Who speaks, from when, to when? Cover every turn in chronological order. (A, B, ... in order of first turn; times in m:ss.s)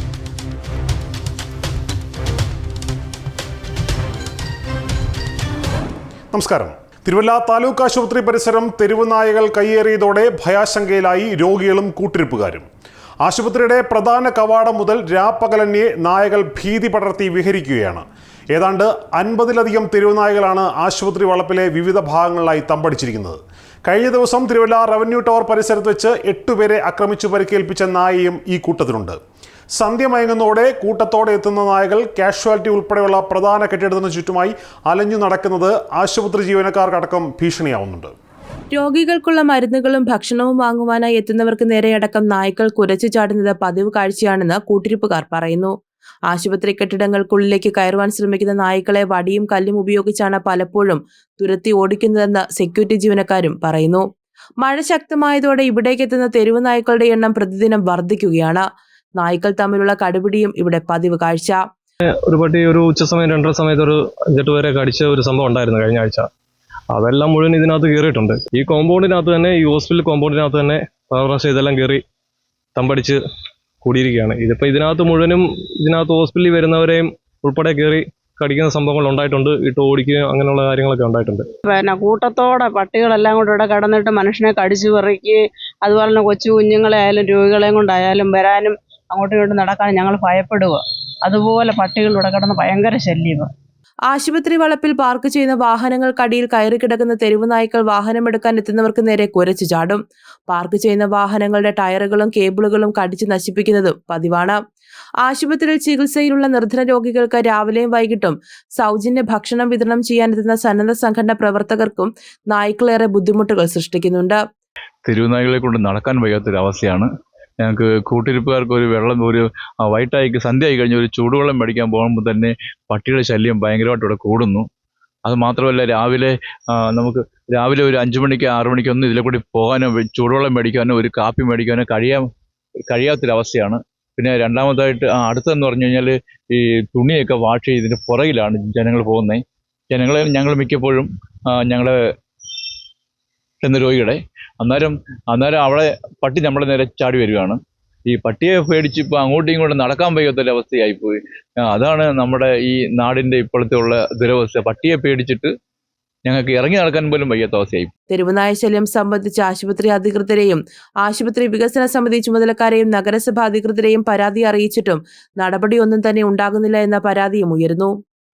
0:06.3-0:12.7 A
0:13.2-0:29.2 A
0:29.8-0:38.1 A
0:38.7-0:45.7 B
0:46.3-0:54.0 B
0:54.6-0:58.6 B
0:59.2-1:01.6 B
1:02.2-1:06.3 C
1:06.9-1:12.0 C
1:12.7-1:13.2 C
1:13.8-1:21.5 C
1:21.7-1:33.5 D
1:34.1-1:44.6 B
1:45.2-1:54.4 B
1:55.0-1:57.1 E
1:57.6-2:04.6 E
2:05.3-2:06.3 E
2:06.9-2:12.2 E
2:12.9-2:19.4 E
2:19.9-2:21.9 E
2:23.6-2:27.6 E
2:28.1-2:31.2 E
2:31.7-2:35.5 E
2:36.2-2:37.9 E
2:38.1-2:47.9 B